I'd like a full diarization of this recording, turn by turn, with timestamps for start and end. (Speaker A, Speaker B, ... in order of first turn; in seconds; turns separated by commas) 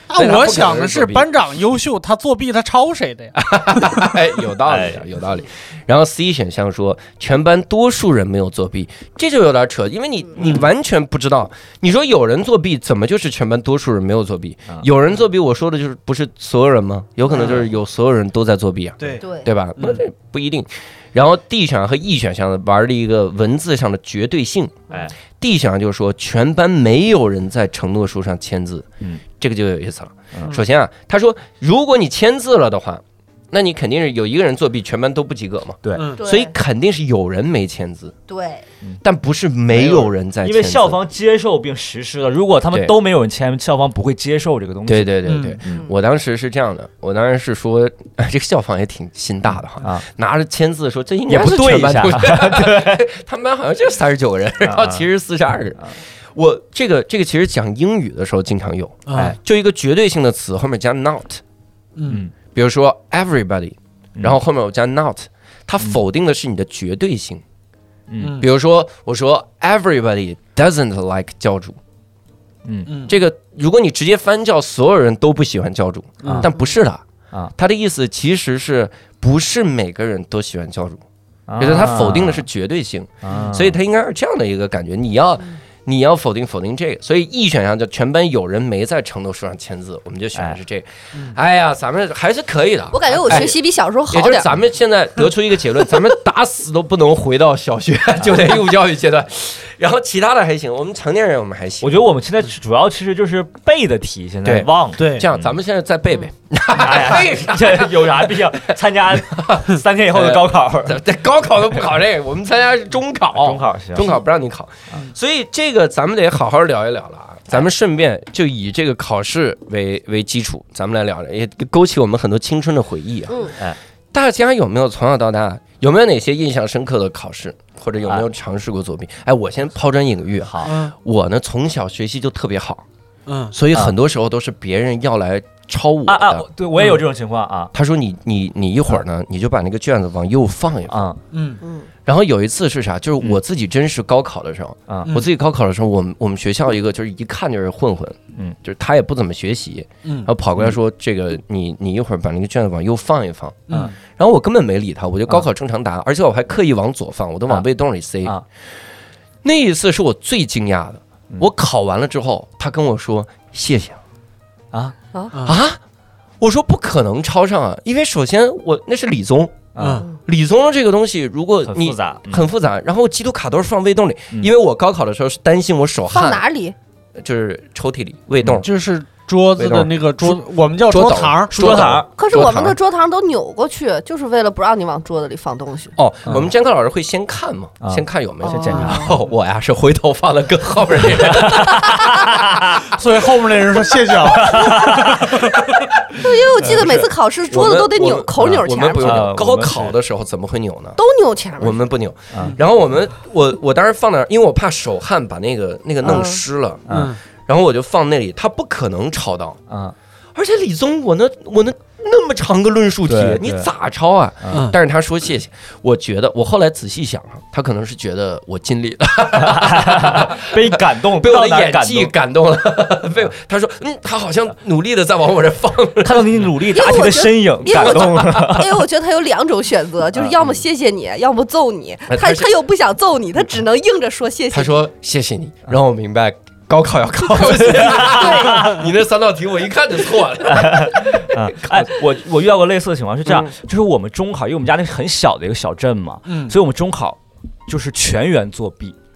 Speaker A: 0.1-3.9, Speaker B: 0.1-1.3, Speaker B: 3.4-38.1, Speaker C: 4.7-5.1, Speaker A: 17.3-17.6, Speaker D: 19.2-19.5, Speaker D: 36.2-36.5, Speaker D: 38.3-38.6, Speaker B: 39.0-41.0, Speaker C: 39.7-45.9, Speaker B: 44.9-55.8, Speaker A: 45.3-45.6, Speaker C: 51.3-53.0, Speaker C: 54.6-55.0, Speaker B: 56.3-61.4, Speaker A: 59.1-59.4, Speaker A: 62.0-62.2, Speaker C: 62.1-62.3, Speaker B: 62.5-67.4, Speaker C: 68.1-68.4, Speaker A: 68.2-68.5, Speaker B: 68.4-71.8, Speaker C: 72.7-72.9, Speaker A: 72.9-73.1, Speaker B: 73.1-77.0, Speaker A: 76.2-76.5, Speaker B: 77.6-81.0, Speaker C: 81.5-82.5, Speaker B: 81.6-93.6, Speaker C: 83.2-83.8, Speaker D: 92.9-94.5, Speaker B: 94.1-102.0, Speaker C: 98.2-98.5, Speaker C: 101.8-105.5, Speaker B: 104.5-123.5, Speaker A: 105.0-105.3, Speaker C: 106.7-111.0, Speaker C: 113.4-114.2, Speaker B: 124.1-132.8, Speaker C: 130.4-130.7, Speaker A: 130.6-130.9, Speaker A: 133.3-133.5, Speaker B: 133.5-136.5, Speaker C: 136.1-137.7, Speaker B: 137.7-141.1, Speaker C: 140.9-141.2, Speaker A: 141.3-141.6, Speaker D: 141.6-141.9, Speaker B: 142.1-158.3, Speaker C: 144.9-145.2, Speaker A: 150.1-150.3, Speaker A: 153.7-153.9, Speaker B: 159.4-164.0, Speaker B: 165.4-165.8, Speaker B: 166.4-169.7, Speaker C: 169.7-170.1, Speaker A: 169.8-170.1, Speaker B: 170.2-176.4, Speaker C: 171.7-172.4, Speaker D: 176.1-176.8, Speaker B: 177.2-178.7, Speaker A: 178.6-181.9, Speaker B: 179.6-182.8, Speaker C: 181.5-182.7, Speaker D: 182.2-185.9, Speaker B: 186.0-192.5, Speaker C: 187.8-189.1, Speaker D: 188.4-189.1, Speaker C: 191.1-192.8, Speaker A: 192.8-195.7, Speaker C: 194.2-195.5, Speaker D: 194.5-195.1, Speaker B: 195.3-195.8, Speaker D: 196.1-199.3, Speaker C: 196.2-197.1, Speaker B: 196.6-201.0, Speaker C: 198.4-199.9, Speaker D: 201.0-201.8, Speaker B: 201.6-206.8, Speaker C: 202.3-202.6, Speaker D: 206.0-206.4, Speaker C: 206.9-207.2, Speaker A: 206.9-207.2, Speaker B: 207.5-209.6, Speaker C: 209.7-209.9, Speaker B: 210.3-226.5, Speaker C: 213.1-213.7, Speaker C: 219.4-222.1, Speaker C: 226.0-228.9, Speaker D: 226.7-234.7, Speaker B: 232.1-232.5, Speaker B: 234.5-241.9, Speaker C: 237.4-238.8, Speaker D: 237.9-238.7, Speaker C: 240.4-249.0, Speaker B: 243.3-243.5, Speaker A: 246.3-246.6